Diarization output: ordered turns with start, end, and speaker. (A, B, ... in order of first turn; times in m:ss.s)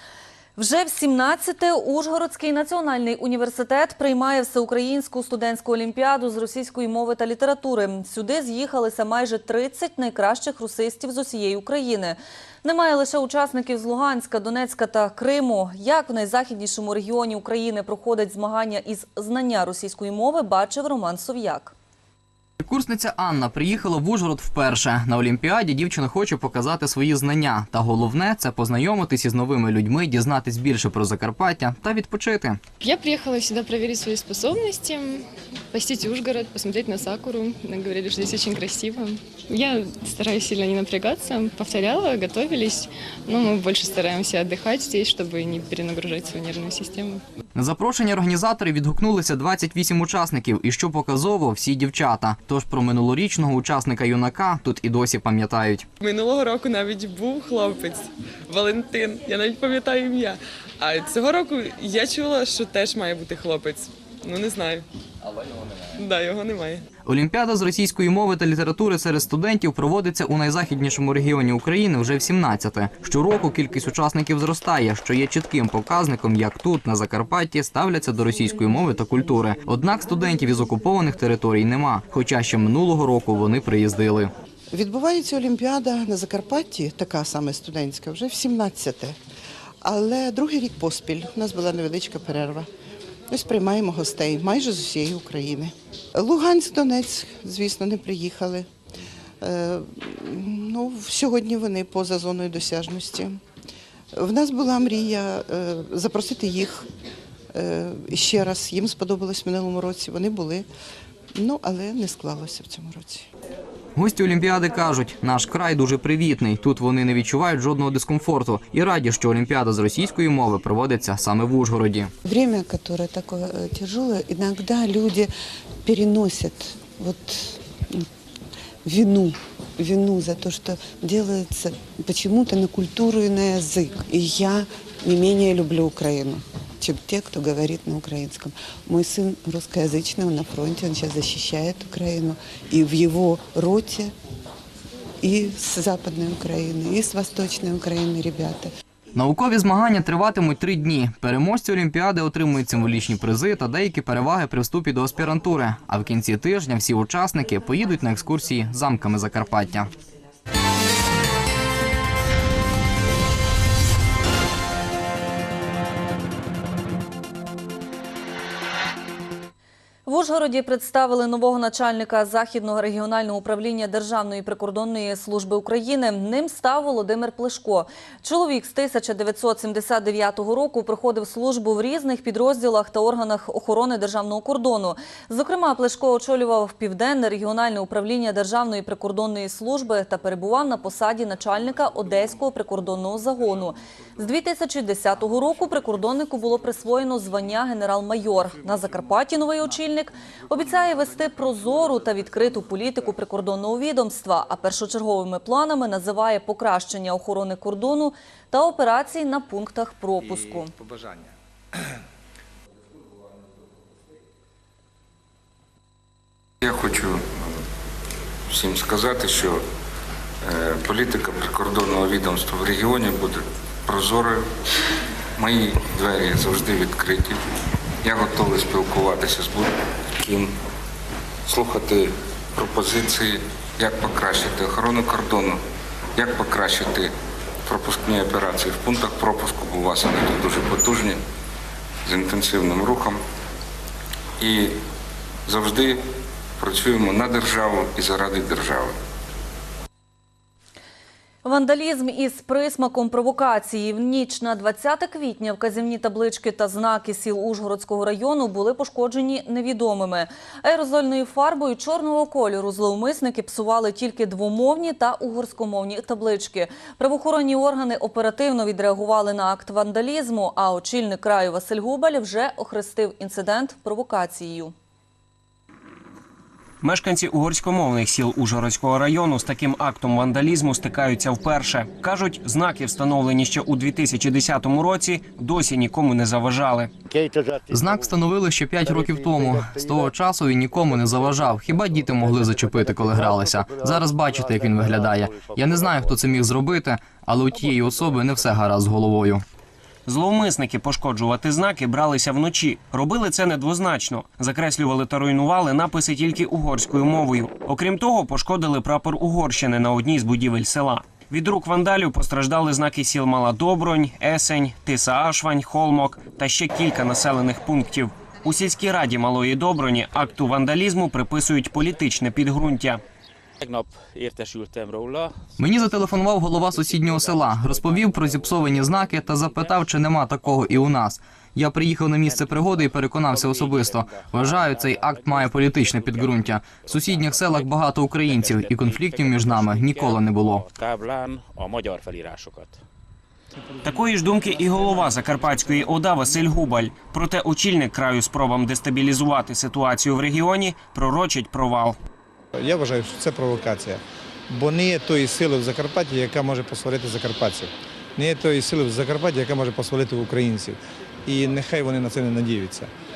0:00.6-0:21.7 A
0:22.6-0:32.6 B
0:32.8-0:47.2 C
0:47.5-0:55.9 B
0:56.0-1:04.8 D
1:06.0-1:06.8 D
1:07.0-1:24.3 B
1:24.7-1:29.2 E
1:29.8-1:32.7 E
1:33.3-1:38.7 E
1:39.4-1:43.4 E
1:44.1-1:46.8 E
1:47.5-1:50.7 E
1:51.3-1:53.3 E
1:54.0-2:02.1 B
2:02.2-2:05.3 F
2:05.8-2:08.0 F
2:08.8-2:24.1 F
2:25.2-2:28.7 F
2:29.1-2:39.9 B
2:50.0-3:30.7 A
3:36.6-3:37.5 G
3:38.5-3:39.6 G
3:40.5-3:44.4 G
3:45.4-3:47.4 G
3:48.0-3:50.5 G
3:51.5-3:55.6 G
3:56.2-3:57.1 G
3:57.6-4:01.2 G
4:02.0-4:03.2 G
4:04.4-4:04.7 G
4:05.5-4:06.0 G
4:06.6-4:08.9 G
4:11.4-4:34.7 A
4:36.8-4:46.9 H
4:47.7-4:59.4 B
5:00.1-5:23.0 H
5:23.6-5:25.3 I
5:25.6-5:40.7 B
5:26.7-5:29.0 I
5:32.4-5:32.8 I
5:33.3-5:37.7 I
5:38.3-5:42.8 I
5:43.8-5:52.0 H
5:52.6-6:02.9 J